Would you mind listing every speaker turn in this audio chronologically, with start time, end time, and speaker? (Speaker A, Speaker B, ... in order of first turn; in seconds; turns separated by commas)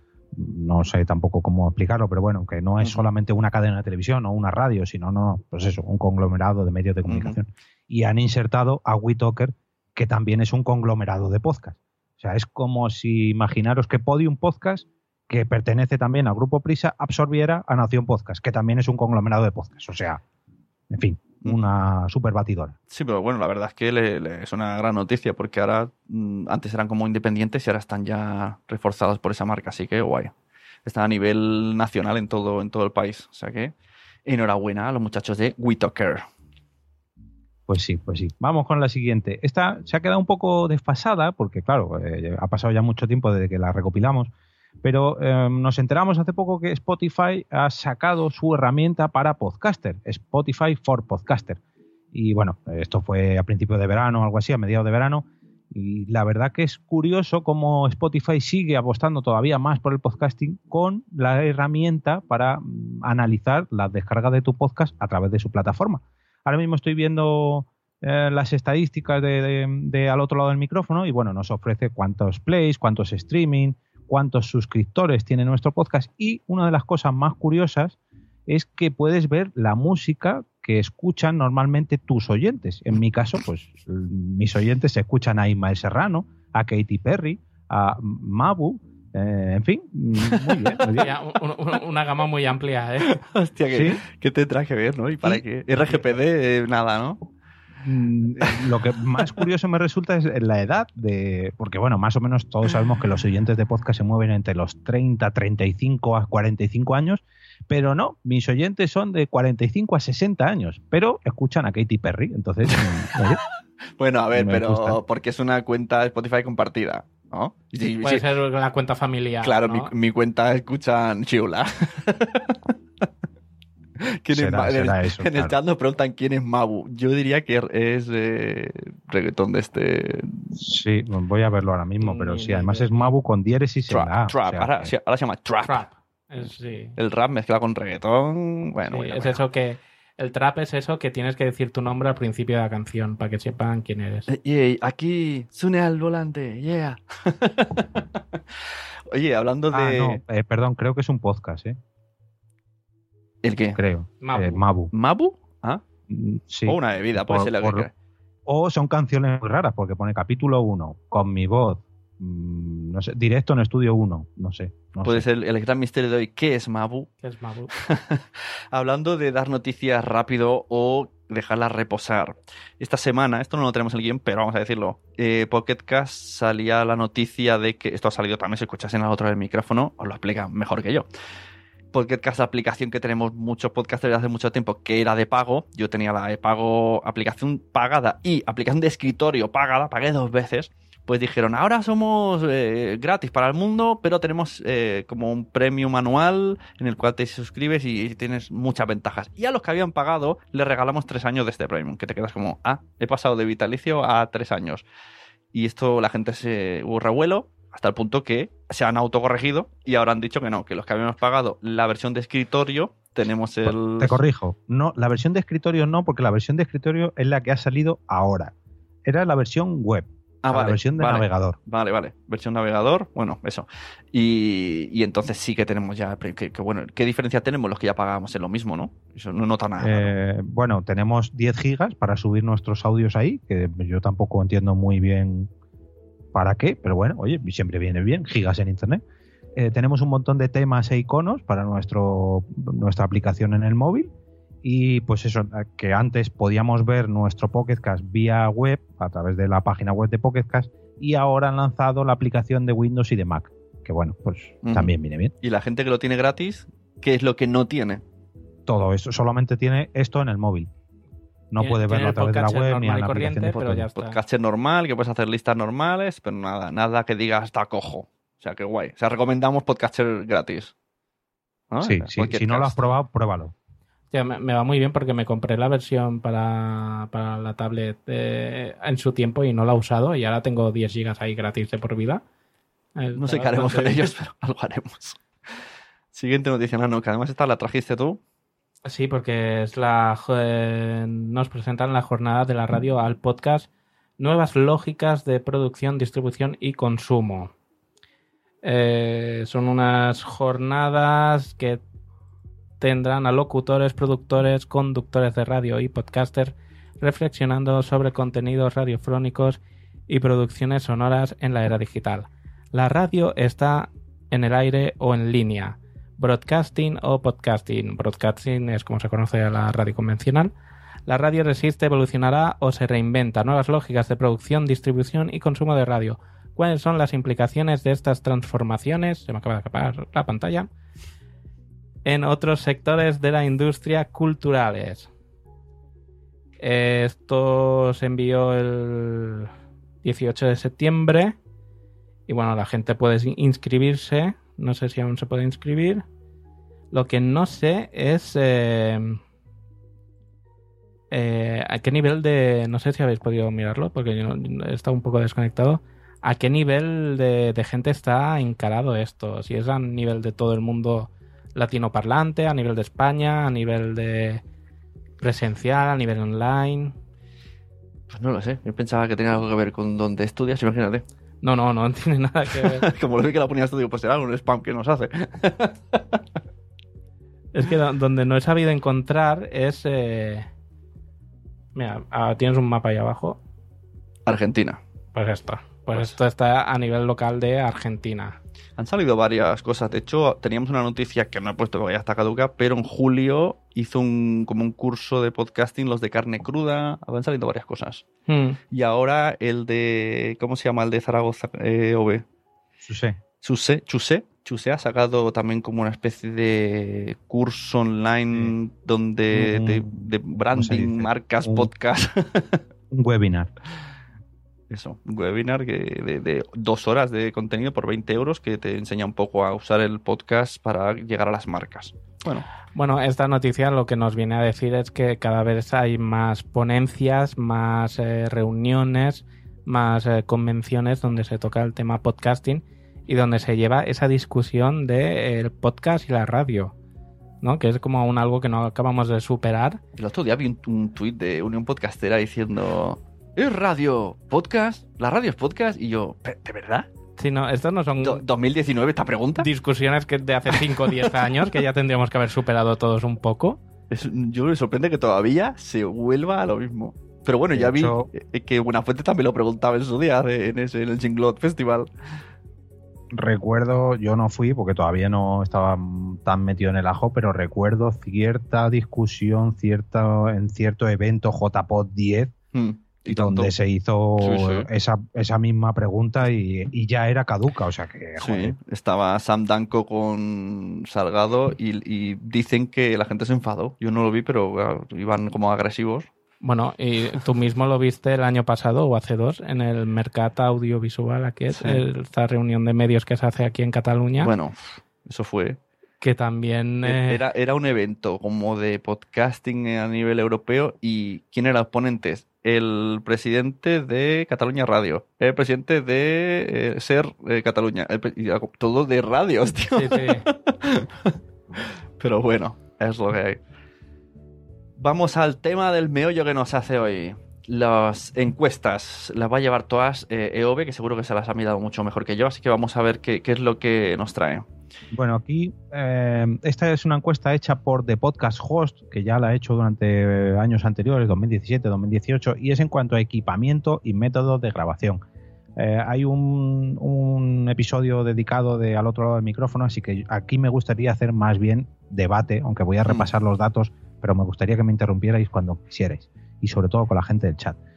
Speaker A: 0.3-20.2, Speaker B: 7.0-7.4, Speaker A: 20.9-22.8, Speaker B: 22.9-30.3, Speaker B: 30.9-33.7, Speaker B: 34.3-36.2, Speaker A: 37.7-44.3, Speaker A: 44.8-51.6, Speaker A: 52.1-78.0, Speaker A: 78.5-91.1, Speaker B: 90.2-90.8, Speaker C: 91.0-93.1, Speaker B: 93.1-97.2, Speaker A: 93.7-94.0, Speaker A: 95.2-96.1, Speaker A: 97.8-113.4, Speaker B: 112.7-113.2, Speaker B: 114.0-118.3, Speaker A: 114.3-115.0, Speaker C: 118.0-119.9, Speaker B: 119.4-122.7, Speaker B: 124.2-130.5, Speaker A: 124.3-125.6, Speaker A: 130.6-134.9, Speaker C: 132.0-133.1, Speaker B: 133.9-135.8, Speaker C: 135.7-136.9, Speaker B: 137.0-139.4, Speaker C: 138.9-144.3, Speaker B: 144.3-148.1, Speaker B: 149.1-150.2, Speaker A: 149.7-151.8, Speaker B: 153.4-153.8, Speaker A: 153.7-154.9, Speaker C: 154.2-154.6, Speaker B: 154.9-155.8, Speaker A: 156.1-157.9, Speaker B: 156.7-157.9, Speaker A: 158.5-165.3, Speaker B: 165.0-167.1, Speaker C: 167.2-167.7, Speaker B: 167.7-181.1, Speaker B: 181.9-204.8, Speaker B: 205.5-214.2, Speaker A: 213.7-218.5, Speaker A: 219.1-221.6, Speaker B: 220.4-230.1, Speaker A: 229.8-235.5, Speaker A: 236.3-239.0, Speaker A: 239.6-244.1, Speaker A: 244.6-255.3, Speaker B: 254.6-258.0, Speaker A: 258.7-260.7, Speaker A: 261.5-263.9, Speaker C: 261.6-264.2, Speaker B: 264.0-270.7, Speaker B: 271.7-272.9, Speaker A: 271.8-273.5, Speaker C: 274.1-282.2, Speaker C: 283.0-284.1, Speaker B: 283.1-285.2, Speaker B: 286.1-288.2, Speaker C: 288.9-293.7, Speaker C: 294.2-297.5, Speaker C: 298.6-301.8, Speaker C: 302.8-320.5, Speaker C: 321.1-330.7, Speaker C: 332.1-335.1, Speaker C: 336.6-339.5, Speaker C: 340.0-341.4, Speaker C: 342.3-346.0, Speaker C: 346.9-349.2, Speaker C: 351.1-364.4, Speaker C: 365.2-366.9, Speaker B: 368.1-371.0, Speaker C: 371.4-372.9, Speaker B: 372.6-376.2, Speaker C: 377.5-380.5, Speaker C: 381.8-383.4, Speaker B: 384.3-384.8, Speaker C: 385.1-388.4, Speaker B: 388.8-398.1, Speaker C: 398.3-398.6, Speaker B: 398.7-402.2, Speaker A: 402.8-403.2, Speaker B: 403.4-412.6, Speaker A: 409.3-411.7, Speaker A: 412.9-413.5, Speaker B: 414.7-422.5, Speaker C: 422.8-436.7, Speaker C: 437.4-439.8, Speaker B: 440.0-446.9, Speaker C: 447.2-448.2, Speaker B: 448.0-449.5, Speaker C: 449.4-453.6, Speaker B: 450.5-451.5, Speaker B: 453.9-461.9, Speaker A: 457.5-458.1, Speaker A: 463.1-472.3, Speaker B: 472.5-473.5, Speaker A: 473.1-478.6, Speaker B: 474.2-474.7, Speaker B: 478.2-486.1, Speaker C: 486.4-494.3, Speaker B: 491.5-491.8, Speaker B: 494.2-495.6, Speaker C: 496.0-497.2, Speaker B: 496.9-511.1, Speaker C: 509.8-510.2, Speaker B: 512.0-513.4, Speaker B: 514.8-524.5, Speaker A: 524.9-535.0, Speaker A: 535.6-547.6